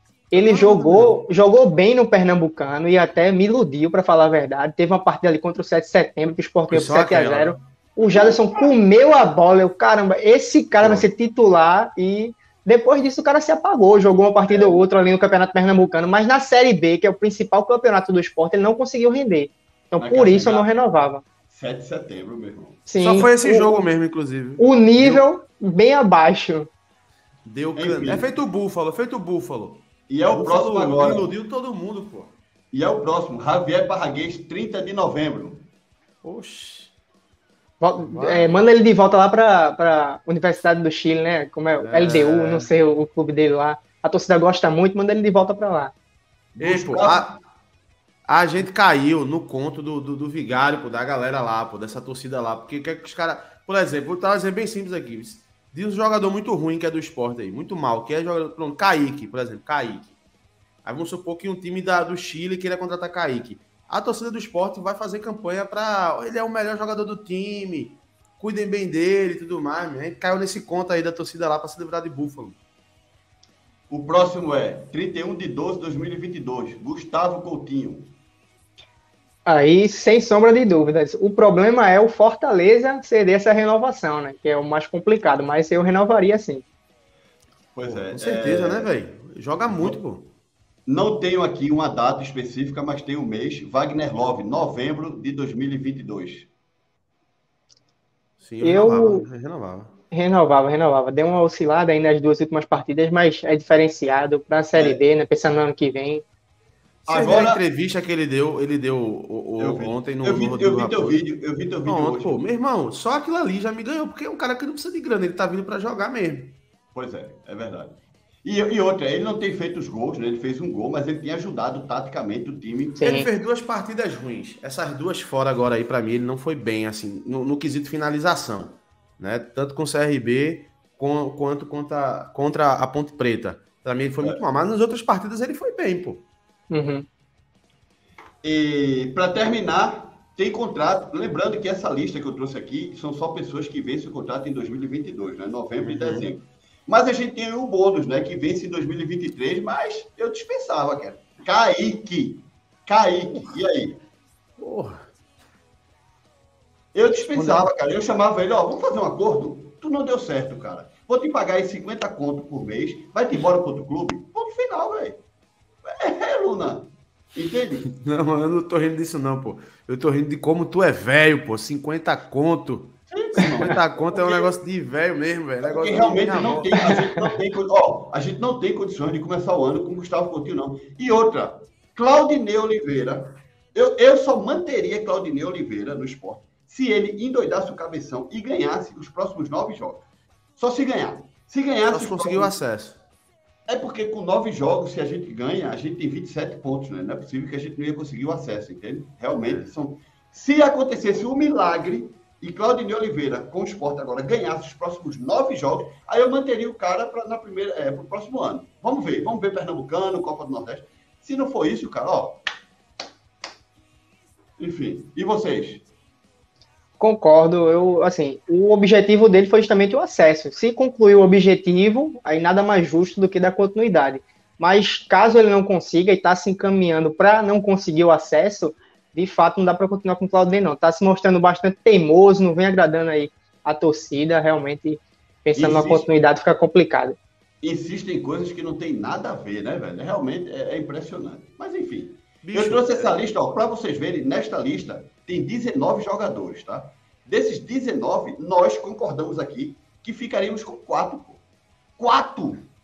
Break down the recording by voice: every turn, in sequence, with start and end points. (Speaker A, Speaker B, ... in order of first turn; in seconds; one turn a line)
Speaker A: 0.3-21.2
Speaker B: 0.3-1.2
Speaker B: 6.7-7.6
Speaker C: 8.0-8.4
Speaker C: 14.5-14.8
Speaker C: 20.0-20.7
Speaker C: 21.5-22.8
Speaker A: 22.9-23.9
Speaker B: 23.0-25.2
Speaker A: 24.6-26.7
Speaker B: 27.4-32.3
Speaker C: 27.7-28.3
Speaker C: 30.1-31.3
Speaker C: 32.7-35.6
Speaker B: 36.2-36.9
Speaker A: 37.8-45.9
Speaker B: 38.0-38.5
Speaker B: 41.8-42.7
Speaker C: 46.5-47.4
Speaker B: 46.6-47.3
Speaker B: 48.3-60.1
Speaker B: 60.8-72.6
Speaker C: 73.9-78.1
Speaker A: 79.5-86.6
Speaker C: 87.7-88.9
Speaker B: 87.8-90.3
Speaker C: 90.9-96.5
Speaker B: 98.4-99.9
Speaker A: 98.6-99.2
Speaker A: 100.1-106.2
Speaker B: 107.0-111.2
Speaker C: 107.1-107.6
Speaker C: 109.6-112.4
Speaker B: 111.8-116.5
Speaker C: 116.9-123.0
Speaker A: 123.0-123.3
Speaker B: 123.0-136.2
Speaker A: 136.7-137.1
Speaker C: 138.4-154.0
Speaker B: 145.8-146.2
Speaker B: 154.6-155.0
Speaker C: 156.9-165.2
Speaker B: 157.3-157.7
Speaker C: 165.8-167.8
Speaker B: 167.9-177.0
Speaker C: 173.1-174.5
Speaker C: 175.6-190.0
Speaker C: 190.6-192.5
Speaker B: 191.9-193.0
Speaker C: 193.7-212.4
Speaker B: 199.3-199.7
Speaker C: 214.6-215.8
Speaker A: 217.0-237.2
Speaker C: 235.5-236.0
Speaker C: 237.6-251.4
Speaker B: 242.4-243.1
Speaker C: 252.0-252.7